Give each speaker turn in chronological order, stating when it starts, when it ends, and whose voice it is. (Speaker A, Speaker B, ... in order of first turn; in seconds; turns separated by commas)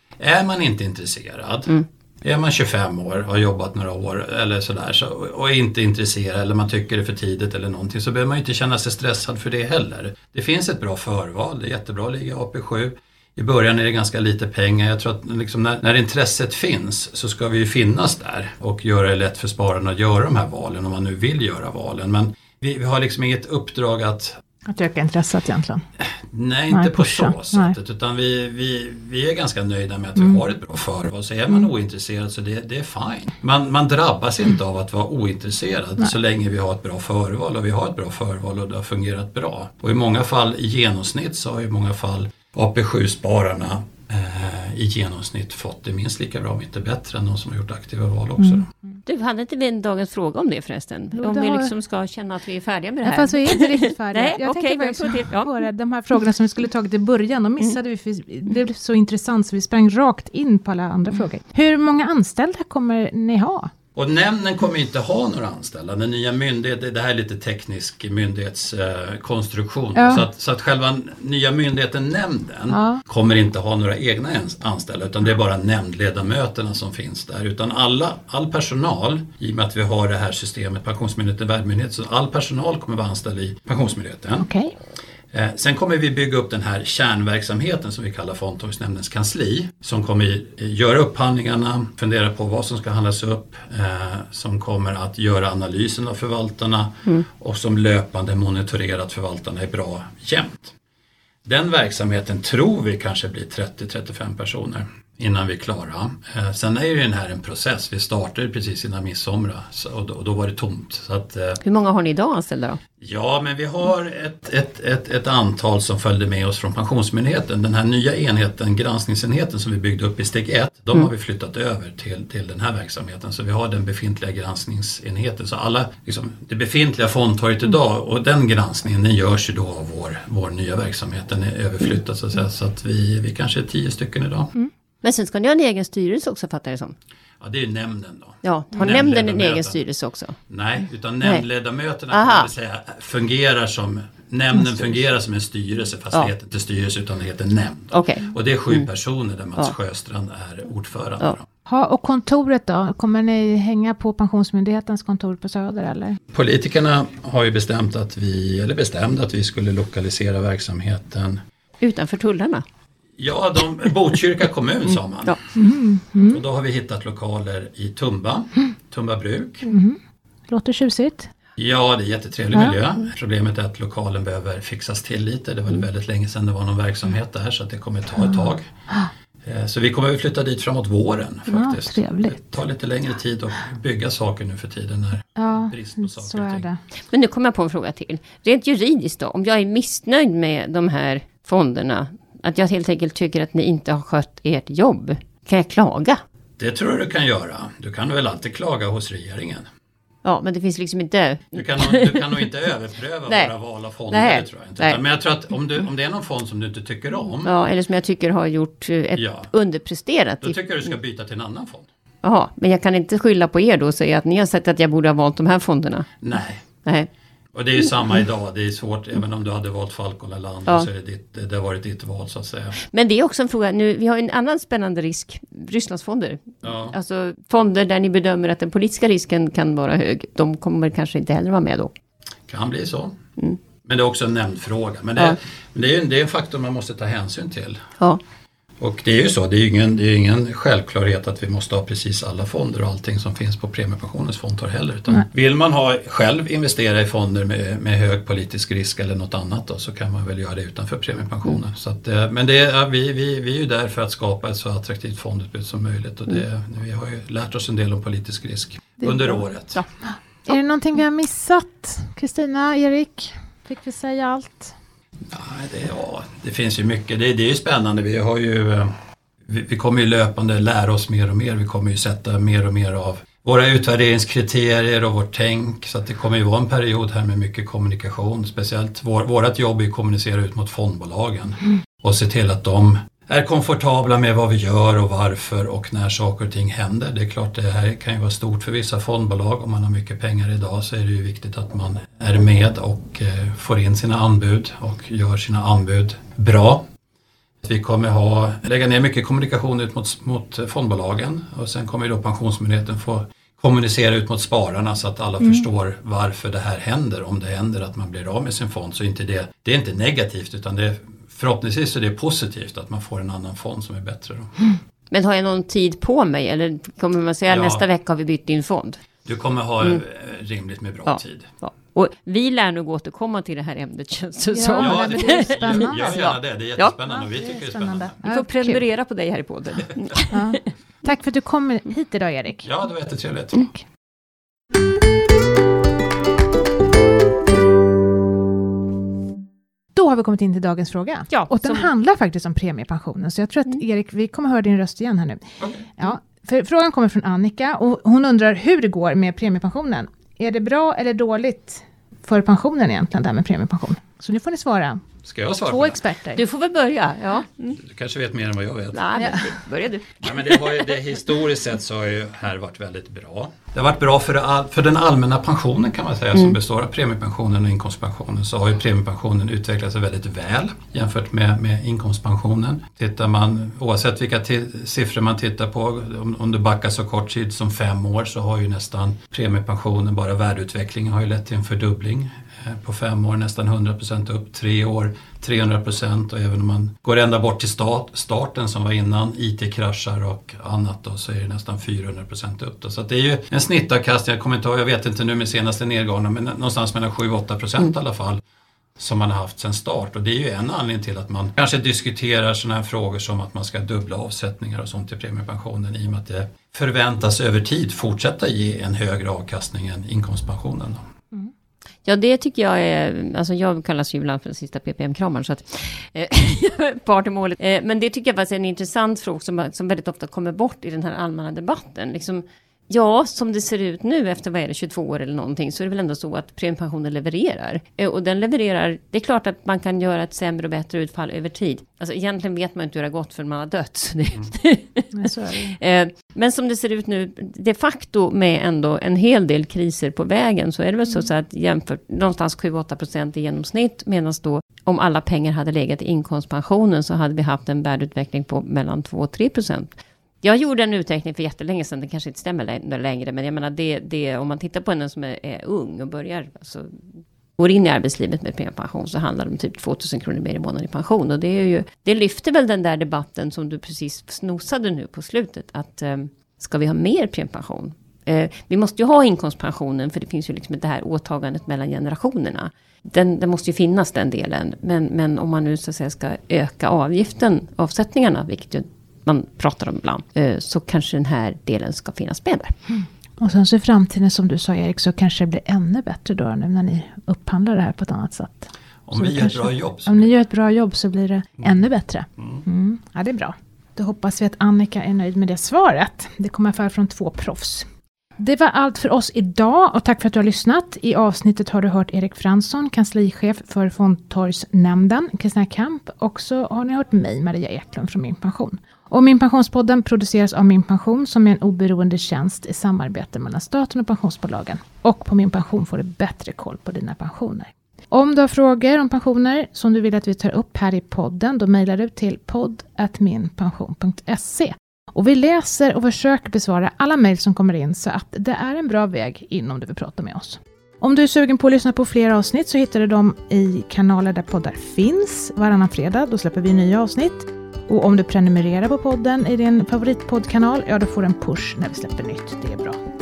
Speaker A: 0.2-24.4, Speaker B: 24.7-25.8, Speaker A: 26.0-48.7, Speaker B: 26.7-27.7, Speaker C: 49.0-55.6, Speaker B: 51.1-51.7, Speaker B: 53.0-63.7, Speaker A: 64.0-84.5, Speaker B: 70.0-70.2, Speaker B: 72.7-73.0, Speaker B: 84.4-84.7, Speaker A: 85.3-100.7, Speaker A: 101.4-111.6, Speaker C: 111.6-112.8, Speaker A: 113.0-134.5, Speaker C: 135.0-136.9, Speaker A: 137.4-139.8, Speaker C: 138.4-140.4, Speaker A: 140.5-151.4, Speaker C: 142.1-142.5, Speaker C: 147.9-148.8, Speaker B: 151.7-156.2, Speaker A: 156.3-161.4, Speaker C: 161.8-162.6, Speaker A: 163.2-165.6, Speaker B: 165.6-166.4, Speaker A: 166.2-169.7, Speaker B: 169.7-170.0, Speaker B: 170.5-171.3, Speaker A: 171.6-178.7, Speaker A: 179.4-186.7, Speaker B: 181.5-182.4, Speaker B: 185.4-186.8, Speaker C: 187.1-196.2, Speaker A: 196.6-199.7, Speaker C: 200.2-202.4, Speaker A: 201.5-207.5, Speaker C: 203.3-203.5, Speaker C: 204.1-205.0, Speaker C: 207.4-210.6, Speaker A: 209.1-209.5, Speaker A: 210.4-211.9, Speaker C: 212.2-216.2, Speaker A: 216.2-216.7, Speaker C: 216.8-217.1, Speaker A: 217.5-222.8, Speaker C: 222.8-231.9, Speaker A: 226.6-226.9, Speaker A: 232.5-233.2, Speaker A: 233.8-237.9, Speaker A: 238.8-259.8, Speaker B: 260.4-264.7, Speaker A: 265.3-268.9, Speaker A: 269.4-296.8, Speaker A: 297.6-314.5, Speaker C: 315.1-319.0, Speaker A: 317.5-317.8, Speaker A: 319.2-321.5, Speaker C: 321.1-326.9, Speaker B: 324.5-326.2, Speaker A: 324.8-328.1, Speaker B: 327.1-328.8, Speaker C: 328.2-330.6, Speaker B: 330.3-332.7, Speaker A: 332.6-333.7, Speaker B: 339.9-355.1, Speaker C: 341.3-341.9, Speaker A: 345.6-345.9, Speaker A: 355.2-356.0, Speaker B: 355.7-356.4, Speaker C: 356.3-357.8, Speaker A: 357.8-359.0, Speaker C: 358.9-360.6, Speaker B: 359.2-359.4, Speaker A: 360.2-398.4, Speaker A: 399.0-411.0, Speaker C: 412.0-457.0, Speaker B: 435.1-435.8, Speaker C: 457.6-482.8, Speaker B: 483.4-543.0, Speaker A: 489.1-490.3